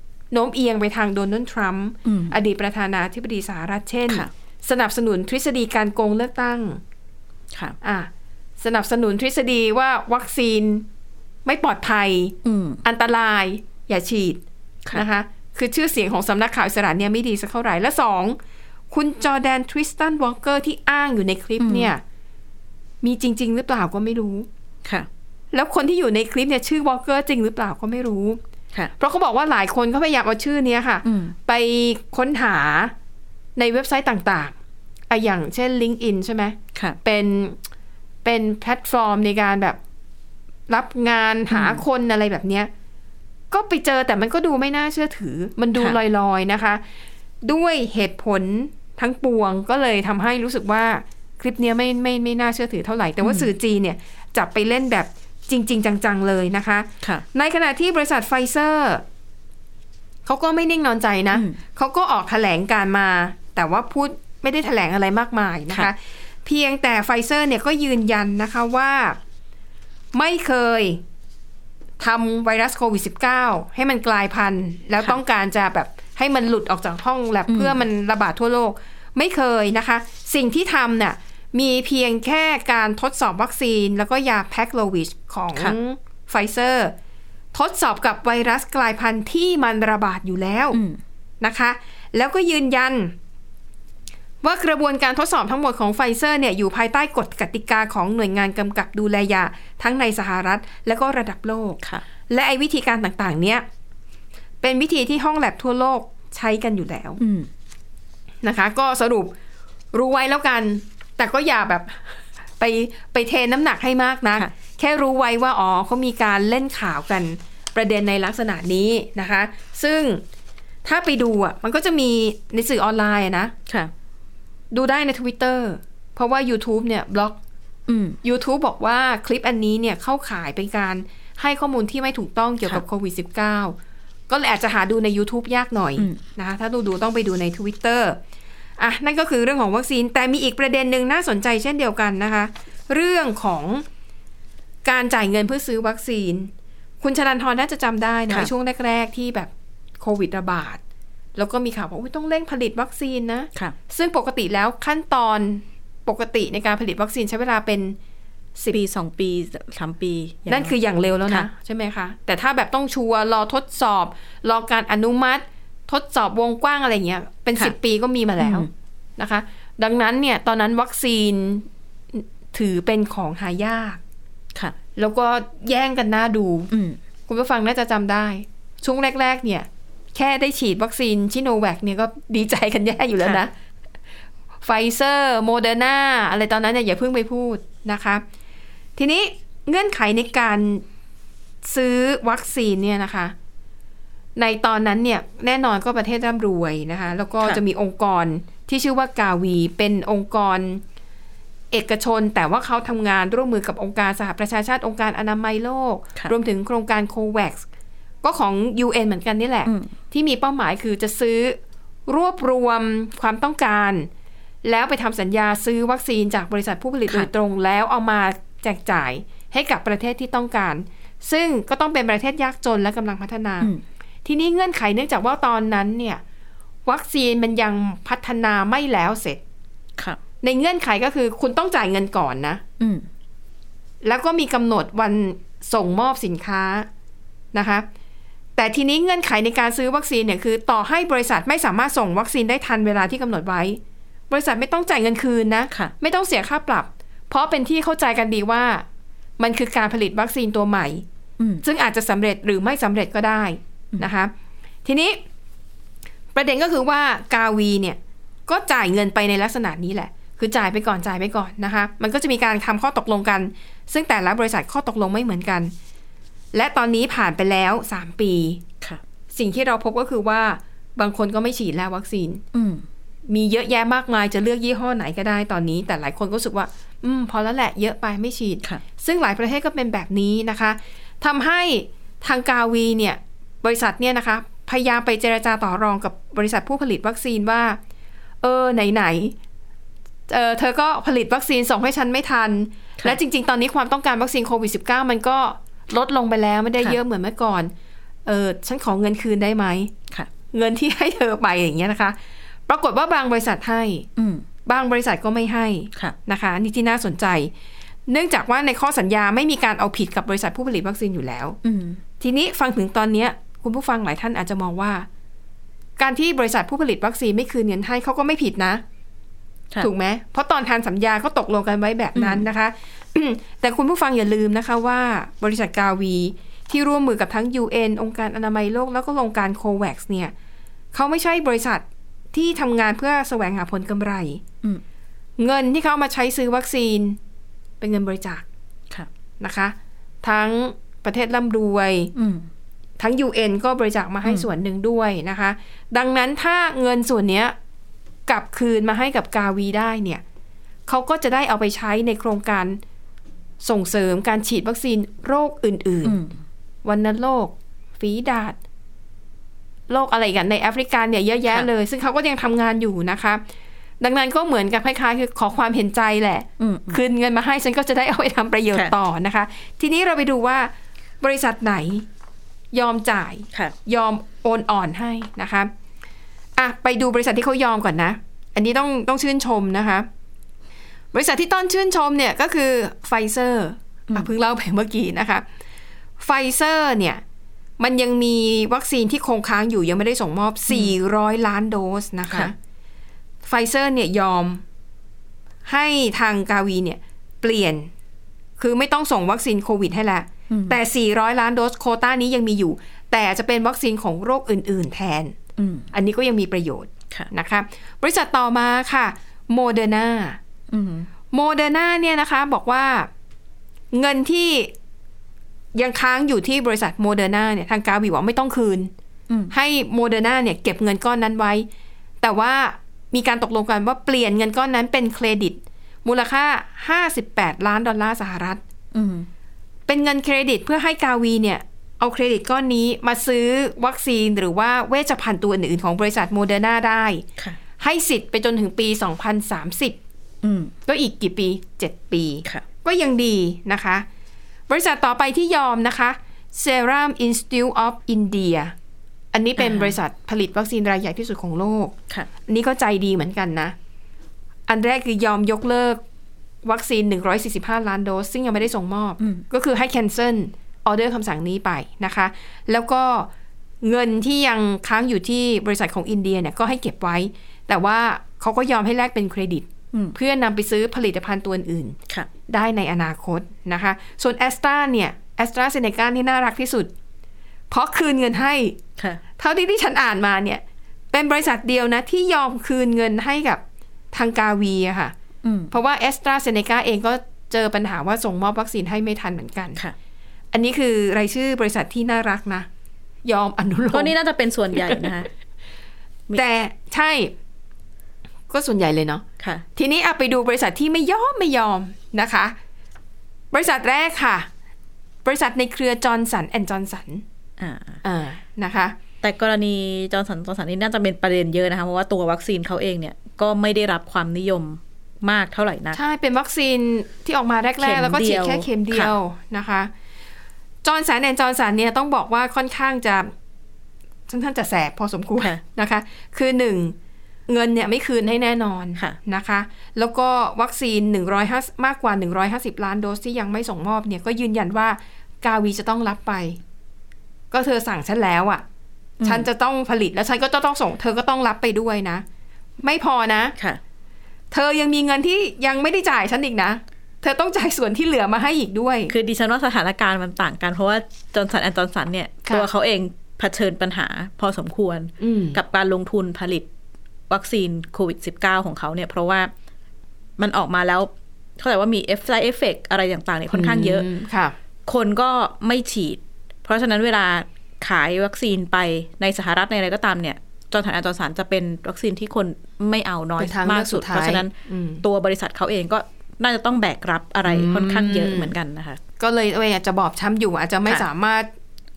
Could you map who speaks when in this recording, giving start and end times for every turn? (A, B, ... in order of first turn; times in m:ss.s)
0:00.3-0:06.8 A
0:02.0-0:02.4 B
0:07.8-0:10.9 A
0:11.4-0:14.4 A
0:12.4-0:12.8 B
0:14.9-0:18.4 A
0:18.9-0:22.0 A
0:21.6-0:21.9 B
0:23.0-0:24.5 A
0:25.5-0:28.4 A
0:29.0-0:32.9 A
0:31.0-0:31.4 B
0:33.6-0:34.5 A
0:35.1-0:37.6 A
0:38.2-0:39.8 A
0:40.7-0:42.7 A
0:41.5-0:41.8 B
0:43.5-0:46.8 A
0:47.4-0:59.0 A
0:53.2-0:53.5 B
1:00.3-1:09.2 A
1:01.3-1:01.6 B
1:10.1-1:11.0 A
1:12.0-1:27.0 A
1:17.5-1:17.8 B
1:27.5-1:30.8 A
1:30.7-1:31.0 B
1:31.4-1:33.2 A
1:34.4-1:43.7 A
1:44.6-1:47.2 A
1:47.2-1:47.5 B
1:48.4-1:49.3 A
1:49.9-2:00.2 A
2:00.8-2:03.5 A
2:04.7-2:07.4 A
2:07.9-2:08.2 B
2:08.2-2:13.8 A
2:14.3-2:18.2 A
2:18.8-2:23.8 A
2:24.8-2:30.8 A
2:31.4-2:38.0 A
2:38.7-2:40.8 B
2:40.5-2:54.0 A
2:48.4-2:48.7 B
2:55.0-2:56.7 A
2:56.7-2:57.0 B
2:57.3-3:03.5 A
3:04.6-3:08.2 A
3:09.0-3:10.8 A
3:11.6-3:13.4 A
3:14.4-3:20.8 A
3:21.7-3:27.7 A
3:28.2-3:34.1 A
3:29.7-3:29.9 B
3:34.6-3:43.7 A
3:44.2-3:46.2 A
3:46.9-3:49.4 A
3:50.4-3:52.6 A
3:52.8-3:53.1 B
3:54.0-3:56.9 A
3:57.5-3:57.9 A
3:58.6-4:08.9 A
4:09.4-4:11.0 A
4:11.6-4:14.3 A
4:14.8-4:15.2 A
4:16.3-4:25.7 A
4:26.5-4:28.6 A
4:29.3-4:32.4 A
4:32.5-4:32.9 B
4:33.3-4:47.8 A
4:48.4-4:49.4 A
4:50.3-4:57.7 A
4:58.3-4:59.9 A
5:00.5-5:02.2 A
5:02.7-5:04.1 A
5:04.2-5:04.4 B
5:04.7-5:07.5 A
5:08.1-5:11.6 A
5:11.6-5:12.0 B
5:12.2-5:15.1 A
5:16.0-5:18.8 A
5:19.8-5:30.3 A
5:22.2-5:22.5 B
5:30.9-5:34.4 A
5:35.4-5:37.2 A
5:37.8-5:38.4 A
5:39.4-5:42.1 A
5:42.2-5:42.5 B
5:43.0-5:47.6 A
5:48.3-5:50.2 A
5:50.9-5:52.8 A
5:53.6-5:56.2 A
5:56.0-5:56.4 B
5:56.8-5:58.6 A
5:59.9-6:03.4 A
6:04.0-6:12.1 A
6:06.6-6:07.0 B
6:12.7-6:15.7 A
6:16.6-6:20.1 A
6:21.1-6:25.4 A
6:26.2-6:27.2 A
6:27.8-6:32.6 A
6:33.4-6:34.6 A
6:35.7-6:37.9 A
6:38.6-6:45.4 A
6:40.5-6:40.8 B
6:45.6-6:45.9 B
6:45.9-6:50.4 A
6:50.7-6:51.1 B
6:51.3-6:53.1 A
6:53.9-6:54.7 A
6:55.8-6:58.9 A
6:59.5-7:01.7 A
7:02.2-7:08.6 A
7:08.9-7:09.3 B
7:09.9-7:17.2 A
7:17.8-7:20.0 A
7:20.4-7:20.7 B
7:20.9-7:24.1 A
7:24.7-7:28.7 A
7:29.3-7:32.0 A
7:29.6-7:30.0 B
7:32.5-7:33.8 A
7:34.7-7:36.0 A
7:36.6-7:43.3 A
7:43.8-7:52.0 A
7:52.5-7:56.9 A
7:57.7-7:58.8 A
7:59.4-8:05.1 A
8:05.4-8:05.7 B
8:05.7-8:09.8 A
8:10.5-8:12.7 A
8:13.2-8:14.2 A
8:13.9-8:15.3 B
8:16.3-8:17.3 A
8:18.5-8:19.2 A
8:19.4-8:19.6 B
8:19.8-8:22.6 A
8:23.5-8:24.5 A
8:25.2-8:27.2 A
8:27.6-8:28.0 B
8:28.0-8:29.0 A
8:29.2-8:36.0 B
8:35.9-8:39.9 A
8:37.8-8:39.1 B
8:40.8-8:43.3 A
8:44.3-8:47.0 A
8:47.5-8:56.6 A
8:57.5-8:58.6 A
8:59.2-8:59.5 B
8:59.2-9:02.2 A
9:02.8-9:03.6 A
9:04.5-9:09.1 A
9:09.1-9:16.7 B
9:15.2-9:15.6 A
9:17.3-9:19.5 B
9:20.4-9:24.1 B
9:23.5-9:24.6 A
9:24.9-9:39.0 B
9:33.4-9:35.0 A
9:37.4-9:38.5 A
9:39.2-9:41.5 A